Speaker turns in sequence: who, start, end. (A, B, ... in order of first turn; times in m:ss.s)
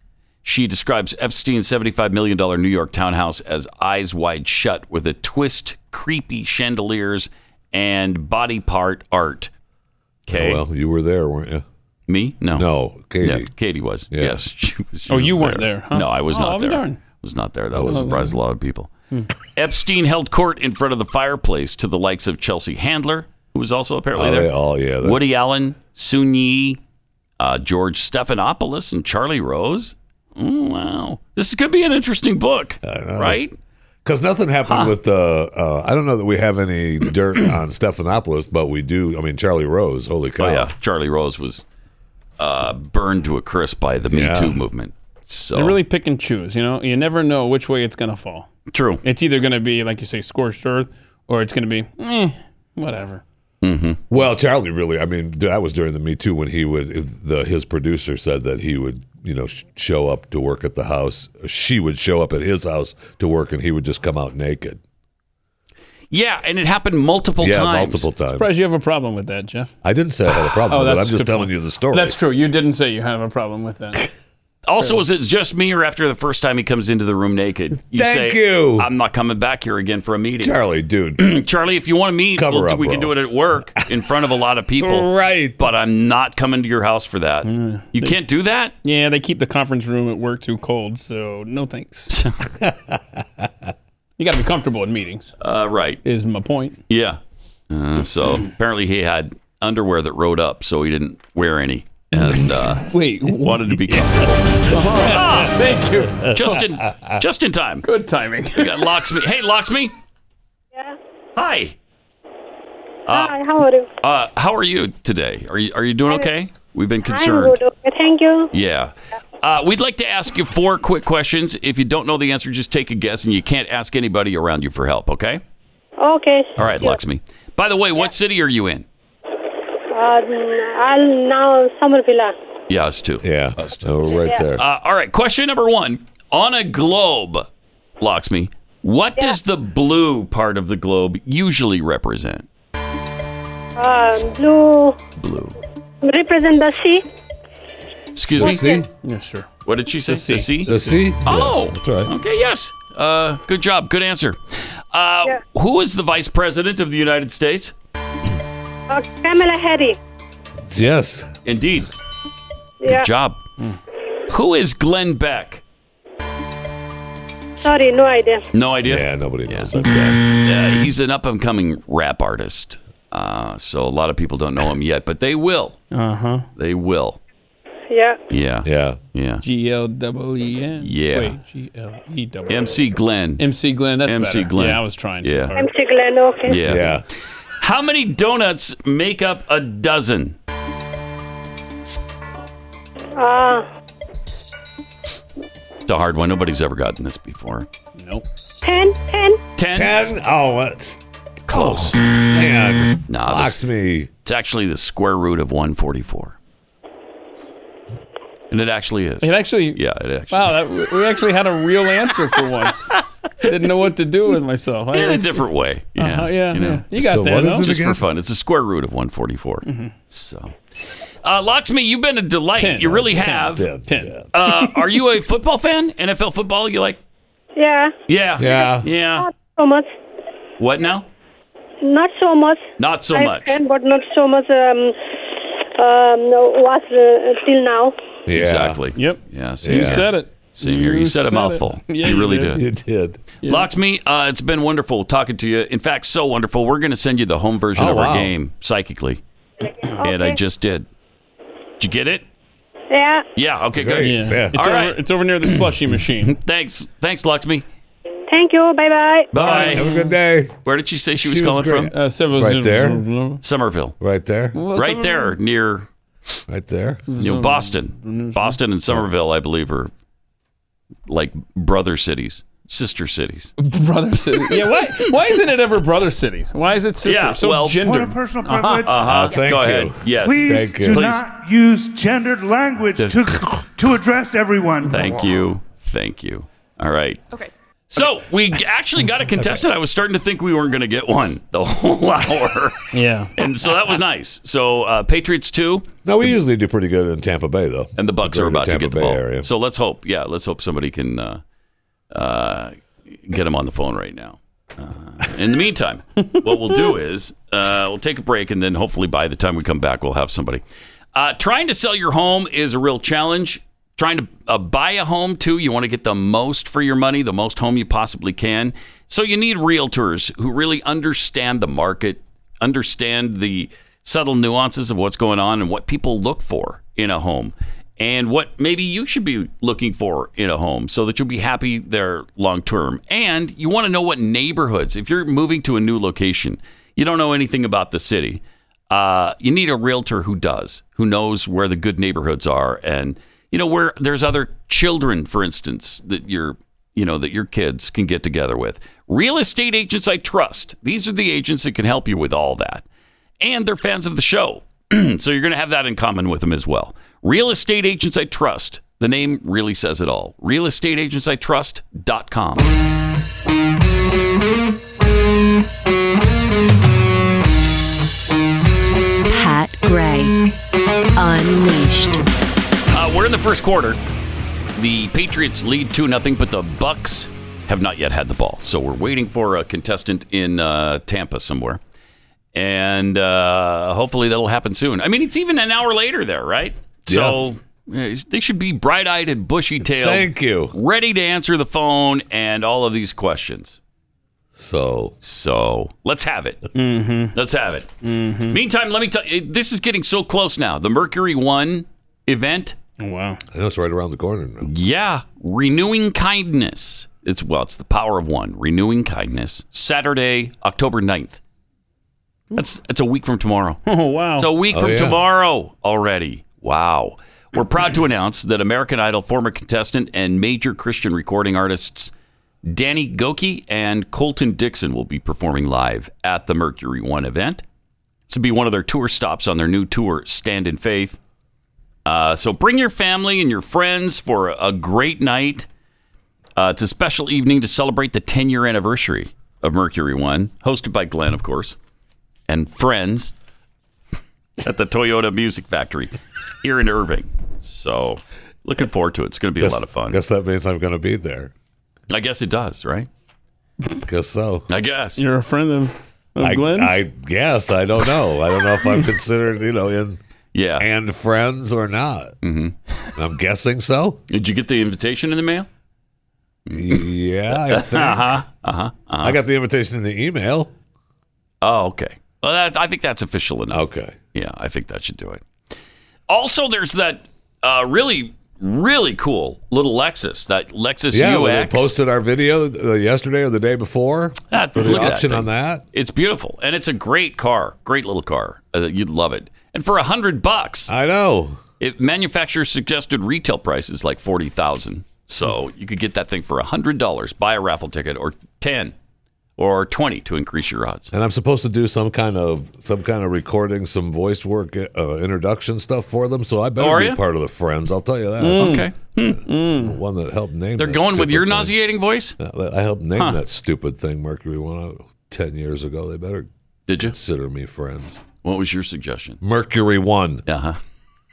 0:00.4-0:09.5 A
0:10.3-0:10.6 A
0:10.3-0:11.6 B
0:12.1-0:12.7 A
0:12.5-0:13.5 B
0:13.2-0:18.9 A
0:14.1-0:14.4 B
0:15.1-0:17.0 C
0:17.7-0:18.4 B
0:17.9-0:18.3 C
0:19.6-0:24.5 A
0:24.2-0:25.2 B
0:25.0-0:26.8 A
0:27.4-0:33.6 A
0:32.8-0:33.4 B
0:34.0-0:40.7 B
0:34.7-0:34.9 A
0:40.4-0:41.6 A
0:42.4-0:45.8 A
0:44.1-0:44.6 B
0:45.6-0:48.5 C
0:48.7-0:49.0 A
0:49.0-0:53.2 C
0:53.6-0:54.0 A
0:54.1-1:04.8 B
1:06.1-1:08.1 A
1:07.4-1:08.6 B
1:08.4-1:09.7 C
1:09.8-1:12.2 B
1:10.7-1:14.1 C
1:14.7-1:20.6 A
1:17.9-1:18.9 B
1:20.4-1:21.2 B
1:21.2-1:28.7 A
1:22.4-1:23.2 B
1:24.8-1:25.7 B
1:27.4-1:28.2 C
1:28.8-1:32.2 C
1:32.1-1:32.4 A
1:32.6-1:33.5 B
1:34.2-1:35.3 C
1:35.4-1:36.0 A
1:36.0-1:36.8 C
1:36.9-1:37.2 A
1:37.7-1:45.6 A
1:42.2-1:43.5 C
1:43.7-1:45.5 B
1:44.6-1:46.3 C
1:46.1-1:47.2 B
1:46.3-1:47.9 A
1:47.8-1:49.0 C
1:48.6-1:49.9 A
1:51.4-1:51.8 A
1:53.1-1:53.4 A
1:53.1-1:53.9 D
1:54.0-1:57.6 A
1:57.1-1:58.5 D
1:58.5-2:05.4 A
2:06.0-2:07.0 D
2:06.6-2:08.8 A
2:09.9-2:12.3 D
2:12.7-2:13.7 A
2:13.2-2:14.6 B
2:14.1-2:14.5 D
2:14.6-2:17.5 A
2:18.0-2:22.5 A
2:23.8-2:25.0 D
2:25.2-2:25.6 A
2:26.0-2:27.0 D
2:28.2-2:28.7 A
2:28.3-2:28.9 B
2:28.4-2:29.5 C
2:28.4-2:28.8 D
2:29.7-2:30.7 A
2:30.1-2:31.0 C
2:30.7-2:32.1 B
2:31.2-2:34.4 A
2:34.9-2:37.7 A
2:38.9-2:40.0 D
2:40.6-2:41.3 B
2:41.5-2:41.9 A
2:42.8-2:43.1 D
2:42.8-2:43.4 A
2:44.3-2:45.6 A
2:47.6-2:48.5 D
2:48.5-2:55.8 A
2:48.8-2:50.2 B
2:55.9-2:56.5 C
2:56.6-2:57.2 A
2:57.9-2:58.2 D
2:58.3-2:59.4 A
2:58.6-2:59.0 B
2:59.4-3:02.8 C
3:00.8-3:01.4 A
3:02.5-3:03.4 A
3:03.4-3:05.6 C
3:04.0-3:05.6 A
3:05.5-3:06.6 D
3:06.5-3:07.0 A
3:06.6-3:07.0 B
3:07.6-3:10.4 A
3:13.2-3:13.7 D
3:15.9-3:17.7 A
3:18.0-3:18.3 C
3:18.6-3:19.4 D
3:19.6-3:19.9 A
3:19.7-3:24.1 B
3:21.5-3:22.0 A
3:23.1-3:23.6 A
3:24.2-3:26.4 A
3:28.5-3:30.7 A
3:29.2-3:35.4 C
3:34.9-3:40.6 A
3:36.0-3:37.7 C
3:37.0-3:38.0 B
3:39.6-3:39.9 C
3:41.2-3:43.7 A
3:42.6-3:44.7 C
3:43.5-3:44.2 B
3:44.3-3:47.0 A
3:47.6-3:47.9 D
3:48.1-3:49.3 A
3:48.4-3:48.9 B
3:49.2-3:49.9 D
3:50.6-3:51.1 A
3:51.8-3:55.0 D
3:52.8-3:53.6 A
3:55.8-3:57.9 D
3:58.3-3:58.8 B
3:58.3-4:02.6 A
3:59.0-4:02.6 C
3:59.6-4:00.0 B
4:02.2-4:03.2 B
4:03.4-4:09.2 A
4:07.8-4:08.3 B
4:10.0-4:10.9 A
4:10.0-4:10.4 D
4:11.8-4:12.2 A
4:12.9-4:13.3 D
4:13.4-4:15.6 A
4:13.8-4:14.6 B
4:14.0-4:16.4 C
4:16.2-4:17.6 A
4:18.3-4:19.3 D
4:19.3-4:19.9 A
4:19.4-4:20.6 B
4:19.4-4:20.2 C
4:20.6-4:21.9 A
4:21.2-4:23.0 B
4:21.9-4:23.4 C
4:23.4-4:24.0 A
4:24.0-4:24.6 B
4:24.5-4:25.4 C
4:24.7-4:25.9 A
4:26.5-4:27.0 B
4:27.1-4:28.6 C
4:27.2-4:29.9 A
4:31.1-4:33.5 A
4:33.6-4:38.9 C
4:34.5-4:35.0 A
4:37.0-4:37.9 A
4:37.8-4:39.0 E
4:38.8-4:41.3 A
4:39.0-4:41.0 B
4:40.2-4:45.0 E
4:43.0-4:43.4 A
4:44.9-4:47.3 A
4:47.9-4:55.9 A
4:52.9-4:53.3 C
4:56.0-4:59.5 B
4:58.0-5:01.4 A
5:02.1-5:10.6 A
5:11.2-5:52.8 A
5:53.4-6:02.7 A
6:09.3-6:10.4 F
6:11.2-6:12.2 F
6:12.9-6:14.0 A
6:14.8-6:21.8 A
6:22.5-6:33.8 A
6:27.1-6:27.4 B
6:29.8-6:30.7 B
6:34.5-6:35.2 B
6:35.2-6:36.7 A
6:36.8-6:37.4 C
6:37.3-6:37.9 A
6:38.0-6:38.6 C
6:38.5-6:42.8 A
6:43.0-6:43.4 C
6:43.5-6:44.7 B
6:44.6-6:51.4 A
6:52.6-6:53.8 A
6:53.9-6:54.5 C
6:54.4-7:02.1 A
6:54.7-6:55.2 B
7:02.6-7:07.6 A
7:08.3-7:11.2 A
7:12.1-7:15.7 A
7:16.6-7:21.8 A
7:22.5-7:23.3 A
7:24.6-7:30.2 A
7:29.6-7:31.5 B
7:32.1-7:33.1 A
7:34.0-7:34.7 B
7:34.7-7:35.2 A
7:35.2-7:37.0 C
7:36.4-7:40.2 B
7:40.5-7:40.9 A
7:40.8-7:42.4 B
7:42.4-7:42.8 A
7:43.2-7:44.2 B
7:44.3-7:45.7 A
7:46.7-7:49.4 A
7:46.7-7:48.4 B
7:49.2-7:50.7 B
7:51.6-7:55.4 A
7:53.7-7:54.2 B
7:56.3-8:01.9 A
8:01.1-8:05.8 B
8:04.5-8:10.9 A
8:10.9-8:11.6 B
8:11.8-8:18.9 A
8:19.6-8:21.1 A
8:21.1-8:28.8 B
8:26.8-8:27.2 A
8:28.4-8:28.9 C
8:28.6-8:29.4 A
8:29.5-8:30.0 C
8:29.7-8:31.7 B
8:30.8-8:32.4 A
8:32.4-8:38.2 B
8:36.9-8:37.2 A
8:38.4-8:39.4 A
8:39.4-8:40.4 B
8:40.5-8:40.8 A